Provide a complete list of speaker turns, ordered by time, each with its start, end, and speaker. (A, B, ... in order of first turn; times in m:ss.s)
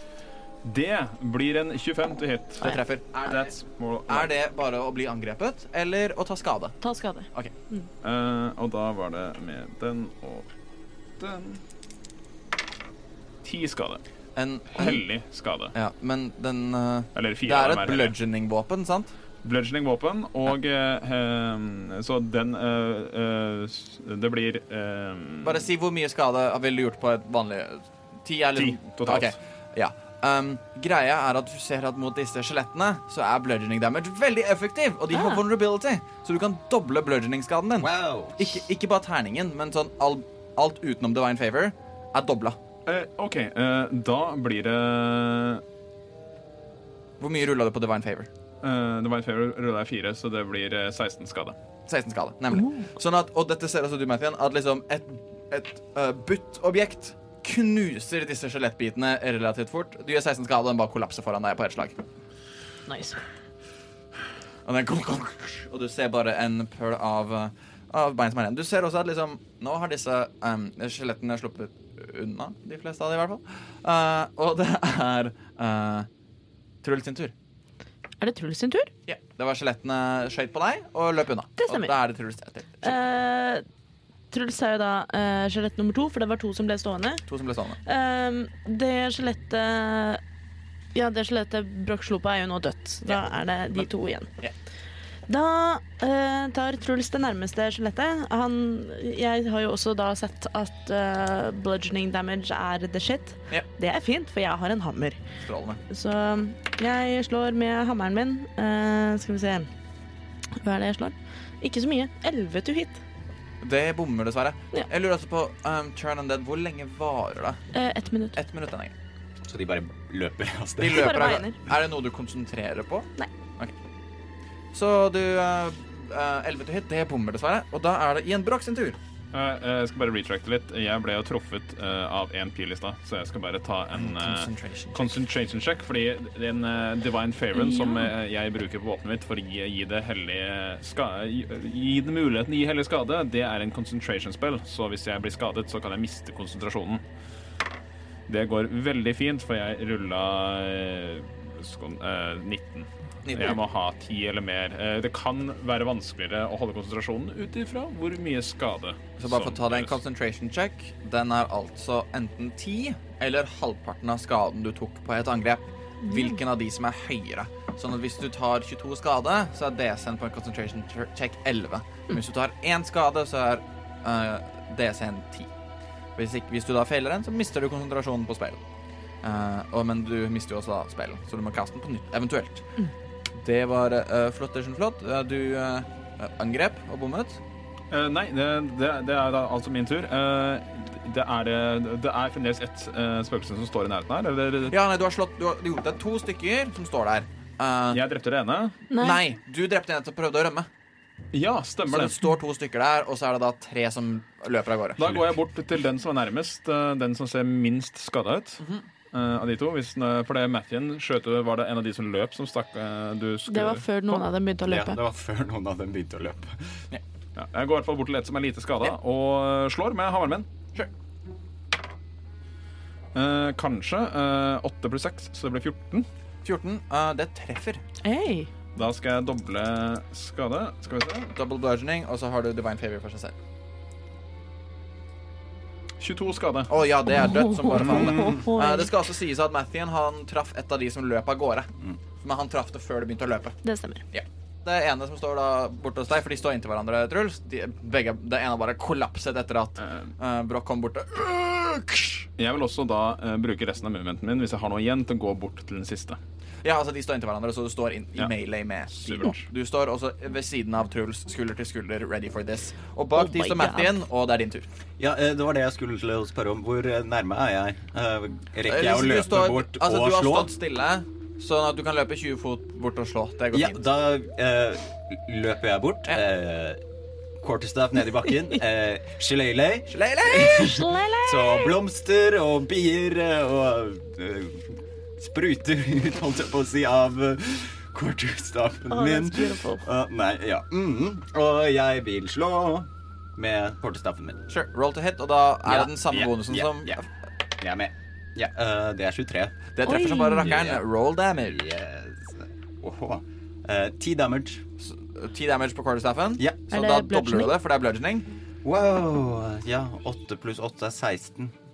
0:00.6-0:02.7 A
0:02.6-0:03.5 B
0:03.2-0:04.3 A
0:04.1-0:06.8 B
0:06.8-0:07.9 C
0:08.0-0:10.5 A
0:11.2-0:11.6 A
0:13.4-0:14.0 A
0:14.4-0:15.0 B
0:14.7-0:15.7 A
0:15.7-0:19.1 B
0:17.2-0:18.2 A
0:19.4-0:25.7 A
0:25.4-0:42.6 B
0:28.6-0:29.4 A
0:35.1-0:35.4 C
0:37.8-0:38.6 D
0:42.9-0:45.6 A
0:47.2-0:48.3 B
0:48.6-0:51.6 A
0:51.9-1:02.0 B
1:02.9-1:03.2 C
1:04.6-1:16.1 B
1:16.8-1:17.3 B
1:18.2-1:18.9 C
1:19.1-1:23.0 B
1:21.6-1:21.9 C
1:22.8-1:23.6 C
1:24.3-1:27.2 C
1:27.3-1:27.8 B
1:27.8-1:30.2 C
1:31.0-1:34.3 C
1:35.3-1:45.2 C
1:45.4-1:45.8 B
1:45.9-1:49.7 C
1:50.6-1:53.0 C
1:53.6-1:57.6 B
1:57.7-1:58.4 C
1:58.4-1:58.9 B
1:59.4-2:01.4 D
2:00.8-2:03.7 B
2:00.9-2:01.6 C
2:04.7-2:09.0 B
2:09.3-2:27.0 A
2:13.9-2:15.2 B
2:17.5-2:18.1 C
2:28.3-2:40.0 A
2:33.2-2:33.6 B
2:39.2-2:55.5 B
2:46.0-2:46.3 C
2:56.2-2:58.6 B
2:59.2-3:02.7 B
3:03.4-3:07.4 B
3:07.9-3:14.8 A
3:14.7-3:18.0 B
3:17.9-3:18.8 A
3:18.9-3:19.2 C
3:19.0-3:20.7 B
3:21.3-3:22.2 A
3:21.9-3:25.2 B
3:25.0-3:34.2 A
3:28.6-3:28.9 B
3:33.5-3:35.0 C
3:34.7-3:36.6 D
3:37.4-3:40.5 A
3:43.1-3:46.1 A
3:46.4-3:47.8 B
3:48.0-3:48.5 C
3:48.8-3:51.3 A
3:51.3-3:53.4 B
3:56.0-3:56.7 A
3:56.7-4:03.6 B
3:57.1-3:58.9 C
3:57.8-3:58.3 A
3:57.8-3:58.3 D
4:03.6-4:04.0 C
4:04.1-4:12.3 B
4:12.4-4:16.2 A
4:16.6-4:24.7 B
4:18.9-4:19.5 A
4:23.2-4:24.0 C
4:25.0-4:30.5 D
4:28.7-4:33.8 B
4:33.5-4:36.8 D
4:37.4-4:54.4 D
4:39.9-4:40.9 B
4:40.4-4:41.8 C
4:48.9-4:49.8 C
4:54.5-4:57.1 B
4:55.6-4:57.0 D
4:57.6-4:59.6 D
4:59.8-5:01.6 B
4:59.8-5:00.5 C
5:00.4-5:00.8 D
5:01.4-5:04.6 D
5:04.8-5:08.3 B
5:06.7-5:07.6 C
5:08.6-5:11.5 D